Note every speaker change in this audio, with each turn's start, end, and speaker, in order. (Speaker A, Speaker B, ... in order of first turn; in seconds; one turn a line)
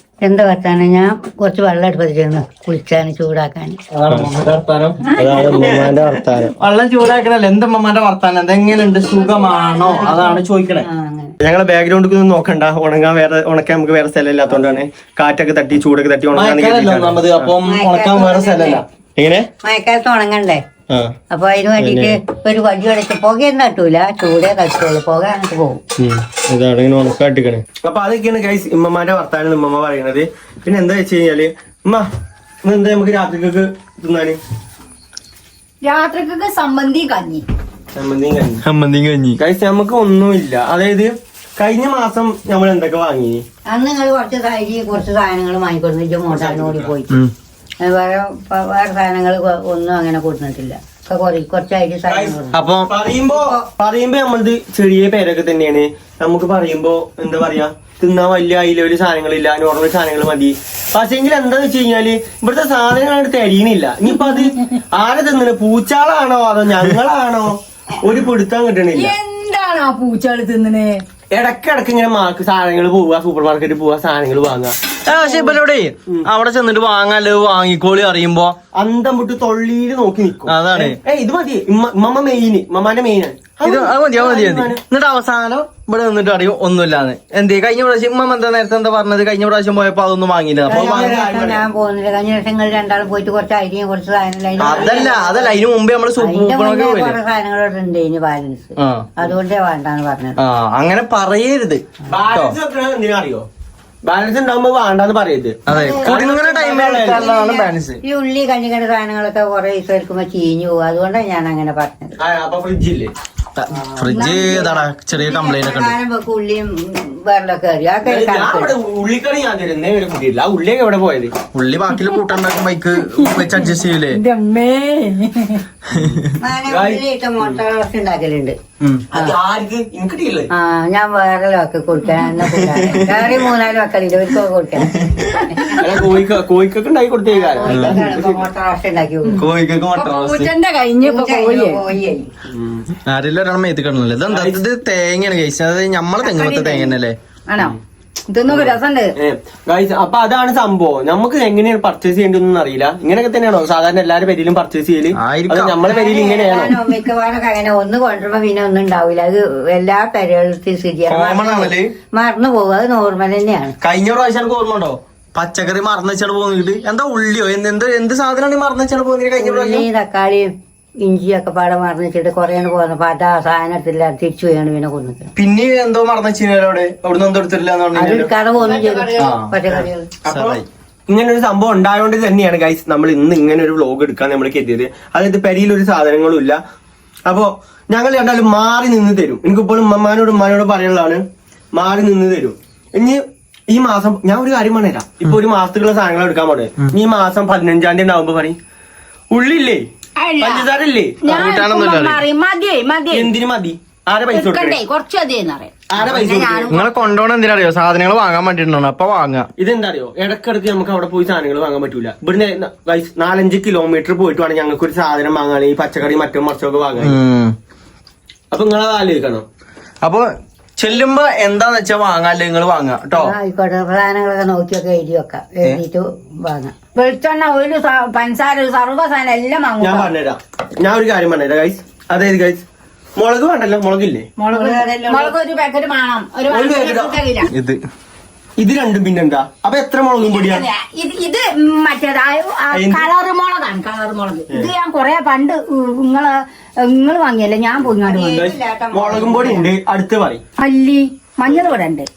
Speaker A: 0.2-3.8
Speaker B: 3.9-10.9
Speaker C: 5.2-6.5
Speaker A: 5.2-5.8
Speaker D: 9.3-9.8
Speaker A: 9.8-11.3
Speaker C: 11.4-17.5
Speaker B: 16.3-18.9
Speaker A: 17.6-18.8
Speaker C: 19.2-19.5
Speaker A: 19.6-20.6
Speaker A: 21.3-25.8
Speaker C: 21.8-22.1
Speaker C: 26.0-32.1
Speaker C: 32.6-34.4
Speaker D: 35.8-37.5
Speaker C: 37.9-38.6
Speaker B: 38.6-39.4
Speaker C: 39.4-43.4
Speaker A: 43.7-47.2
Speaker C: 46.3-47.0
Speaker A: 47.8-52.6
Speaker C: 52.1-69.2
Speaker B: 52.5-52.9
Speaker D: 68.9-71.0
Speaker C: 71.3-74.8
Speaker B: 75.0-78.6
Speaker C: 78.8-84.8
Speaker B: 80.5-81.0
Speaker B: 83.6-91.0
Speaker C: 90.7-91.7
Speaker A: 90.7-95.6
Speaker C: 94.6-95.1
Speaker B: 94.6-97.2
Speaker A: 96.2-100.4
Speaker B: 98.8-99.2
Speaker B: 100.4-102.6
Speaker C: 102.1-103.5
Speaker C: 104.0-107.3
Speaker B: 105.7-108.0
Speaker D: 105.7-106.2
Speaker A: 106.7-112.2
Speaker C: 112.2-113.1
Speaker B: 113.6-116.0
Speaker D: 114.0-114.9
Speaker A: 115.1-118.8
Speaker C: 118.0-121.3
Speaker B: 121.5-124.2
Speaker D: 123.0-125.6
Speaker B: 125.9-126.3
Speaker C: 125.9-127.6
Speaker A: 126.4-128.6
Speaker C: 129.1-130.5
Speaker A: 130.5-136.0
Speaker C: 132.7-133.1
Speaker C: 135.7-138.5
Speaker A: 137.3-139.4
Speaker B: 137.7-138.1
Speaker D: 139.2-141.8
Speaker C: 139.4-140.4
Speaker B: 139.9-140.5
Speaker A: 141.0-142.3
Speaker C: 142.4-142.9
Speaker B: 143.1-147.2
Speaker C: 144.3-144.6
Speaker D: 146.2-147.0
Speaker D: 147.5-147.8
Speaker D: 148.3-149.1
Speaker C: 148.5-156.8
Speaker B: 155.2-155.9
Speaker A: 155.8-163.8
Speaker B: 161.1-161.9
Speaker B: 163.8-169.9
Speaker A: 169.4-175.3
Speaker B: 175.4-178.3
Speaker A: 177.9-180.1
Speaker D: 178.6-179.1
Speaker B: 179.2-179.6
Speaker C: 179.7-186.6
Speaker B: 180.2-180.7
Speaker C: 187.3-198.6
Speaker C: 199.3-199.9
Speaker D: 200.2-200.7
Speaker C: 200.4-201.2
Speaker D: 201.2-203.3
Speaker B: 201.2-202.2
Speaker C: 203.1-204.8
Speaker D: 204.3-206.9
Speaker C: 205.9-206.7
Speaker B: 206.7-209.5
Speaker C: 209.6-217.2
Speaker B: 217.0-217.6
Speaker C: 218.5-219.5
Speaker B: 220.0-223.3
Speaker A: 223.2-226.7
Speaker D: 226.9-230.1
Speaker C: 229.8-232.6
Speaker C: 233.2-234.3
Speaker D: 234.4-237.5
Speaker A: 234.5-235.3
Speaker C: 236.5-237.2
Speaker B: 237.5-237.8
Speaker C: 238.6-240.7
Speaker D: 240.2-248.5
Speaker C: 242.7-243.1
Speaker A: 248.0-249.7
Speaker C: 248.3-250.4
Speaker D: 250.6-252.1